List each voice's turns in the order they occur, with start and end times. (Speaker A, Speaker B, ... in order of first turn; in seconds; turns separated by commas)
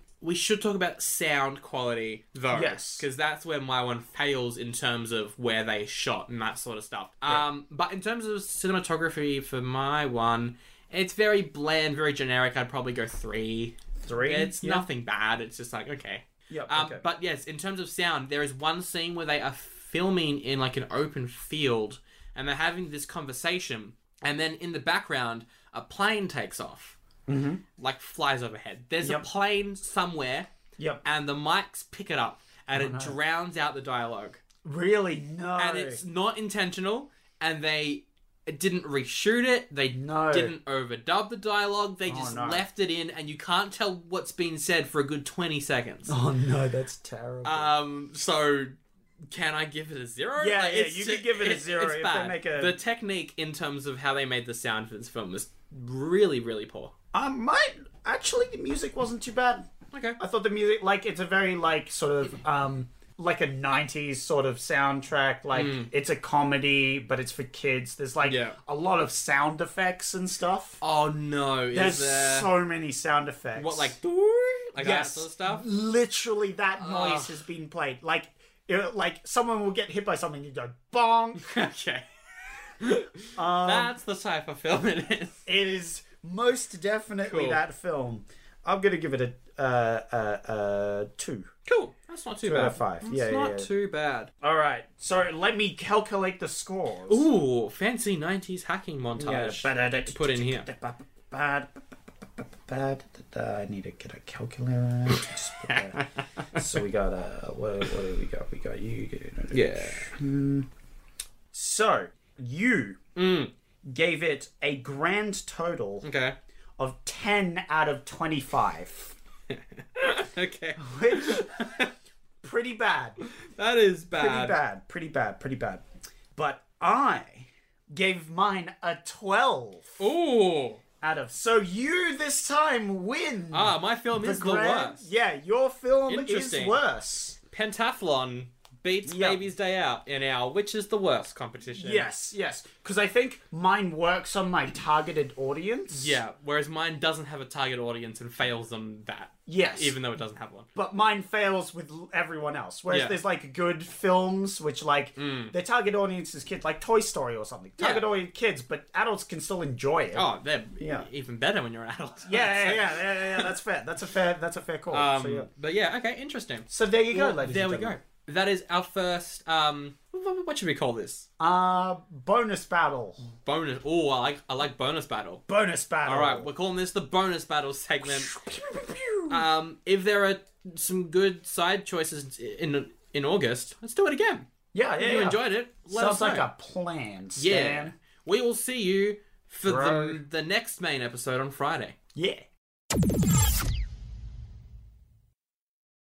Speaker A: 0.2-27.0, Speaker B: 2.5-3.0, Speaker B: 14.0-14.9, Speaker B: 16.5-17.1, Speaker B: 27.3-27.6, Speaker A: 27.8-30.5, Speaker B: 29.0-29.3, Speaker B: 30.8-31.0, Speaker A: 31.0-34.4, Speaker B: 32.7-33.2, Speaker B: 34.6-36.0, Speaker A: 35.6-46.2, Speaker B: 39.9-40.6, Speaker B: 42.0-42.6, Speaker B: 46.1-47.7, Speaker A: 47.5-48.8, Speaker A: 49.3-56.9, Speaker B: 50.4-52.8, Speaker B: 57.1-59.7, Speaker A: 59.9-60.2, Speaker B: 60.2-70.8, Speaker A: 65.5-65.9, Speaker A: 68.2-68.6, Speaker A: 70.8-72.5, Speaker B: 71.7-74.0, Speaker A: 73.5-75.7, Speaker B: 74.8-81.6, Speaker A: 76.8-77.4, Speaker A: 81.4-82.1, Speaker A: 82.8-85.4, Speaker B: 83.3-84.0, Speaker B: 85.5-91.5, Speaker A: 87.2-87.6, Speaker A: 91.7-94.3, Speaker B: 92.4-93.7, Speaker B: 94.4-97.3, Speaker A: 97.1-100.7, Speaker B: 99.2-101.8, Speaker B: 102.4-106.0, Speaker A: 105.7-106.6, Speaker B: 106.5-110.7, Speaker A: 109.5-110.1, Speaker B: 111.5-113.0, Speaker A: 113.2-113.5, Speaker B: 113.8-116.1, Speaker A: 116.0-116.4, Speaker B: 116.8-119.1, Speaker A: 119.5-121.9, Speaker B: 120.8-121.5, Speaker B: 122.4-123.2, Speaker A: 123.2-124.6, Speaker B: 124.2-125.8, Speaker B: 126.3-130.1, Speaker A: 130.0-130.8, Speaker B: 131.0-137.4, Speaker A: 133.5-135.1, Speaker A: 136.1-136.8, Speaker A: 137.5-142.1, Speaker B: 139.0-139.5, Speaker B: 141.7-146.2, Speaker A: 145.9-150.7, Speaker B: 149.5-150.0, Speaker B: 150.8-161.1, Speaker A: 152.9-153.2, Speaker A: 155.2-155.6, Speaker A: 157.8-158.1, Speaker A: 160.1-163.6, Speaker B: 162.2-165.5, Speaker A: 164.9-171.3, Speaker B: 166.7-168.0, Speaker B: 171.4-173.3, Speaker A: 173.2-175.4, Speaker B: 175.5-176.5, Speaker A: 176.1-178.3, Speaker B: 178.0-179.5, Speaker A: 179.3-184.5, Speaker B: 184.7-187.9, Speaker A: 185.0-186.5, Speaker A: 187.4-191.9, Speaker B: 189.7-190.2, Speaker B: 192.2-192.4